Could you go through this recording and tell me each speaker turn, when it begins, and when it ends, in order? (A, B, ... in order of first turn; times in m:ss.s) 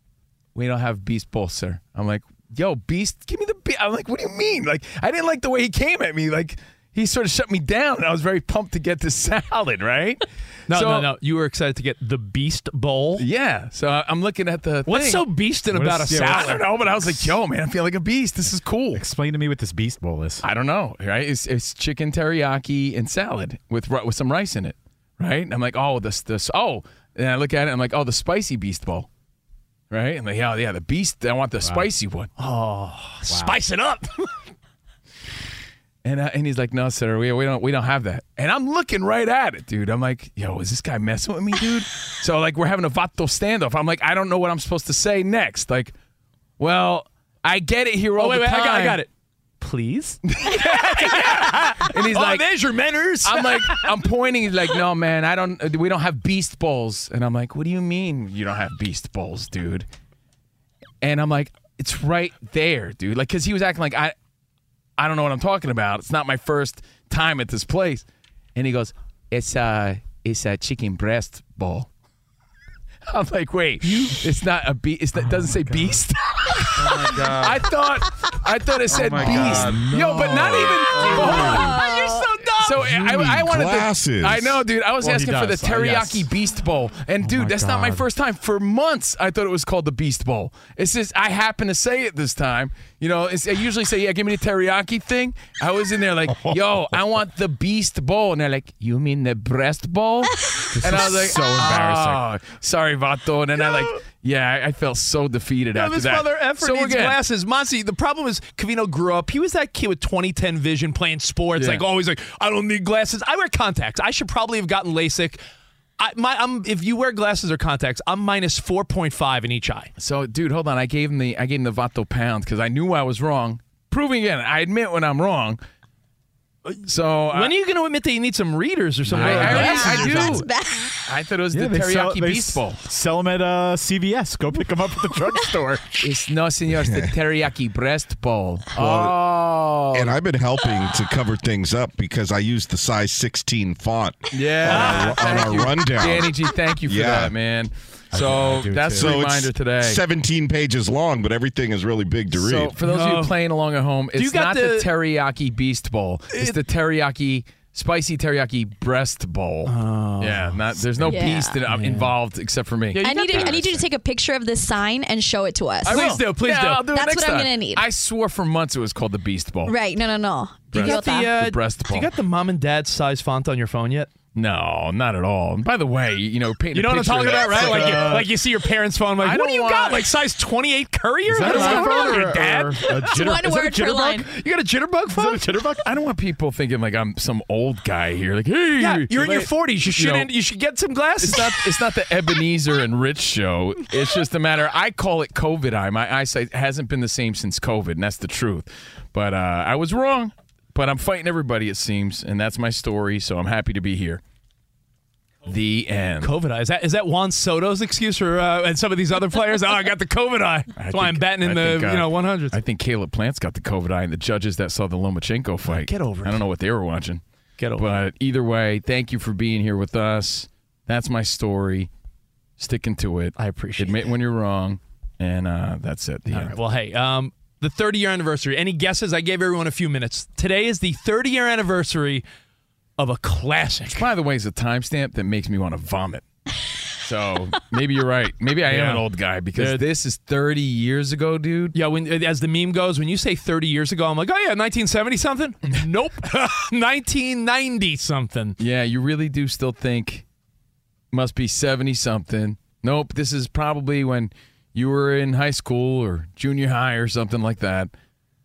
0:00.5-0:11.1 A
0:10.7-0:13.2 B
0:13.2-0:15.2 A
0:14.9-0:16.6 B
0:15.7-0:16.4 C
0:16.1-0:19.0 A
0:18.9-0:20.4 C
0:20.4-0:29.1 A
0:29.9-0:32.3 A
0:32.4-0:34.3 B
0:33.3-0:33.6 C
0:36.0-0:45.9 A
0:46.6-0:49.0 A
0:48.2-0:53.9 B
0:50.3-0:52.4 A
0:53.2-0:59.8 A
1:01.0-1:04.1 A
1:05.0-1:11.9 A
1:13.1-1:21.8 A
1:13.9-1:14.2 B
1:15.3-1:15.9 C
1:18.9-1:20.0 C
1:19.2-1:20.7 D
1:21.0-1:23.2 B
1:21.2-1:21.7 D
1:21.7-1:22.2 E
1:22.6-1:47.2 A
1:22.9-1:24.6 D
1:25.0-1:26.2 C
1:27.2-1:28.0 C
1:40.7-1:42.2 C
1:45.7-1:55.4 B
1:51.6-1:51.8 A
1:56.0-1:59.9 B
2:00.0-2:05.6 A
2:06.9-2:07.5 A
2:07.3-2:10.4 B
2:09.1-2:10.5 A
2:09.1-2:10.2 C
2:09.5-2:11.0 E
2:11.0-2:12.8 A
2:11.5-2:15.9 C
2:16.0-2:20.2 A
2:18.8-2:19.2 D
2:19.9-2:26.3 D
2:24.3-2:30.0 A
2:24.6-2:25.5 B
2:26.9-2:27.3 D
2:28.1-2:29.2 C
2:29.0-2:32.7 D
2:32.3-2:43.8 A
2:32.8-2:33.4 B
2:34.1-2:34.9 B
2:36.3-2:36.6 B
2:39.7-2:40.4 B
2:41.0-2:41.6 E
2:41.7-2:42.1 B
2:42.9-2:43.6 B
2:43.0-2:46.1 E
2:45.8-2:49.8 A
2:45.8-2:46.8 B
2:46.9-2:47.8 E
2:49.6-2:51.3 E
2:50.7-2:52.1 A
2:50.7-2:54.1 B
2:54.3-2:58.3 A
2:56.7-3:03.4 B
2:57.7-2:58.2 C
2:59.2-3:00.0 A
3:01.3-3:04.2 C
3:01.5-3:02.1 E
3:03.1-3:04.2 E
3:04.0-3:05.7 B
3:05.1-3:05.8 C
3:05.8-3:10.3 A
3:08.8-3:11.6 B
3:11.2-3:24.2 A
3:25.4-3:26.3 A
3:26.2-3:32.6 B
3:30.8-3:37.2 A
3:35.7-3:36.4 B
3:37.6-3:37.9 B
3:37.8-3:41.9 A
3:42.6-3:46.6 A
3:43.4-3:44.0 B
3:46.3-3:52.2 B
3:53.0-3:54.0 B
3:53.9-3:56.2 A
3:57.0-4:01.8 A
3:58.7-3:59.8 B
4:01.7-4:08.6 B
4:08.6-4:10.2 A
4:11.1-4:17.9 A